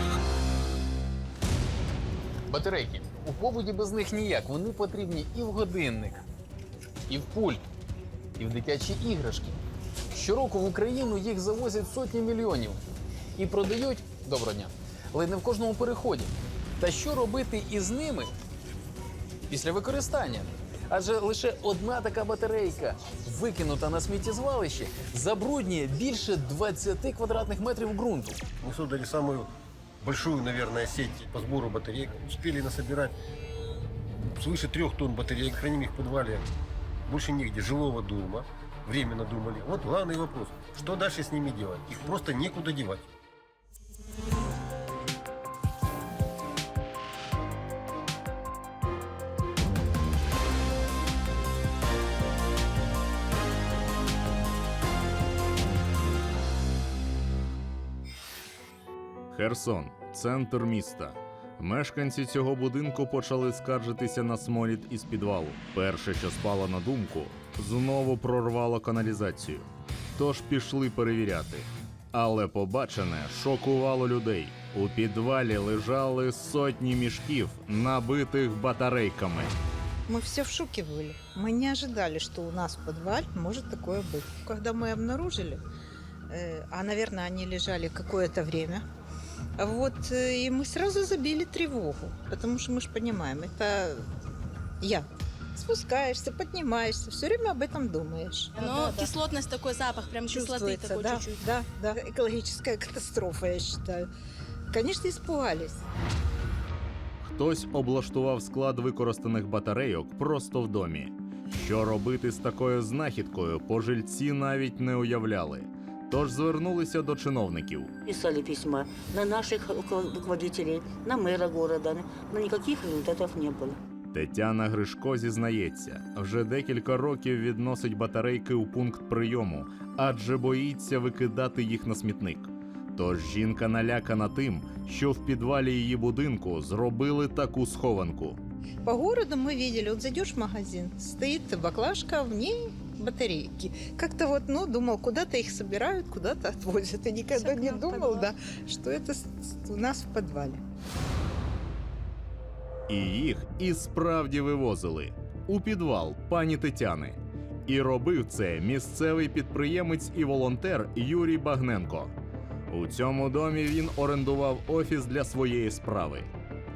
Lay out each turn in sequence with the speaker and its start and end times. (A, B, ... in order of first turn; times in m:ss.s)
0:02.5-0:06.2 A
0:07.1-0:07.6 A
0:08.4-0:09.6 A
0:10.1-0:12.8 A
0:13.4-0:18.3 A
0:19.5-0:28.4 A
0:28.6-0:29.5 B
0:30.0-0:33.2 B
0:34.2-0:36.4 B
0:37.1-0:43.1 B
0:59.3-1:19.5 C
1:20.1-1:25.6 D
1:26.3-1:28.8 D
1:29.6-1:34.1 D
1:34.8-1:39.1 D
1:38.6-1:41.4 E
1:40.3-1:44.1 D
1:44.7-1:45.8 D
1:47.2-1:57.9 C
1:58.0-2:03.8 F
2:04.1-2:18.4 C
2:18.8-2:30.6 D
2:27.4-2:28.0 E
2:32.9-2:42.1 C
2:42.7-2:46.3 C